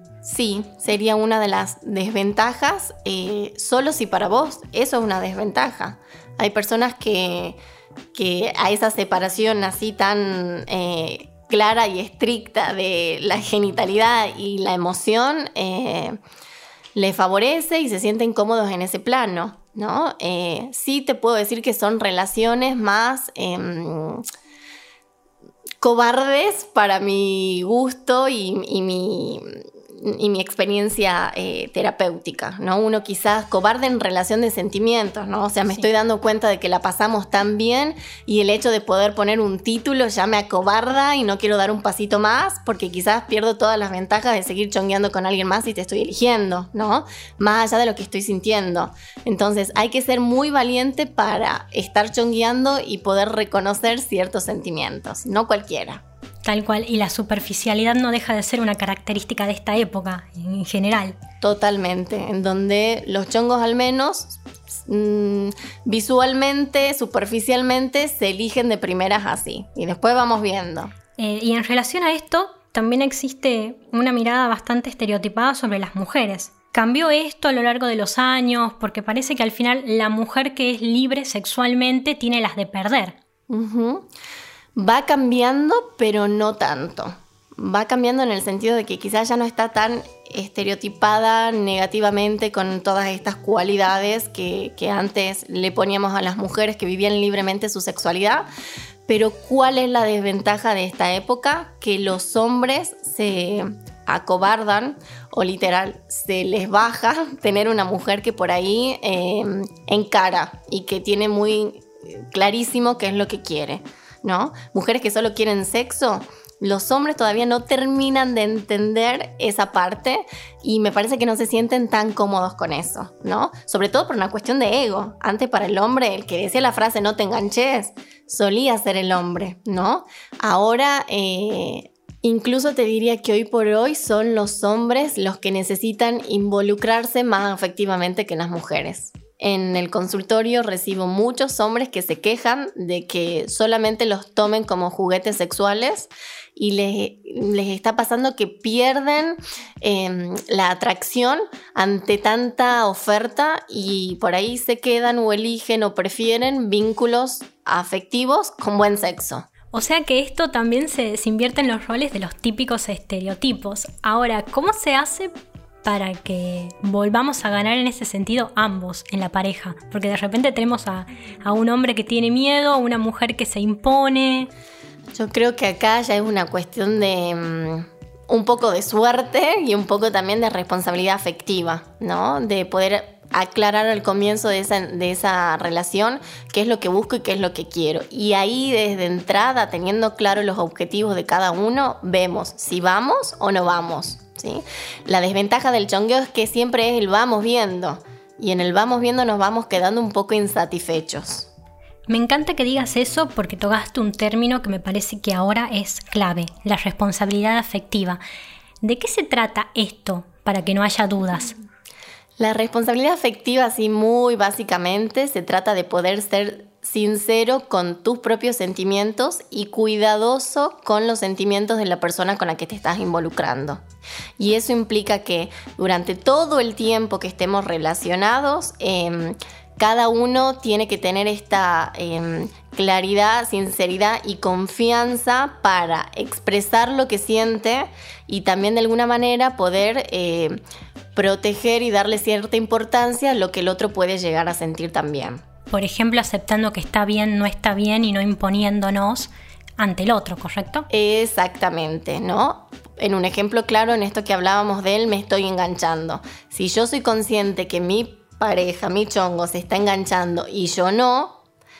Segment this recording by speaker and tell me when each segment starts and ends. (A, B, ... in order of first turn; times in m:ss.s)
0:00.2-0:07.6 A
0:08.1-0:16.2 A
0:17.0-0:24.2 A
0:25.8-0:56.0 A
0:56.4-1:01.2 B
1:01.4-1:10.9 A
1:11.2-1:23.2 B
1:23.5-1:24.1 A
1:24.8-1:38.5 A
1:39.1-2:39.5 A
2:39.7-2:45.3 B
2:45.8-2:54.5 B
2:55.2-3:21.5 A
3:22.1-3:28.2 B
3:28.8-3:31.5 B
3:32.4-3:43.8 A
3:44.4-4:00.6 A
4:01.2-4:05.4 A
4:05.7-4:10.9 B
4:10.9-4:21.4 A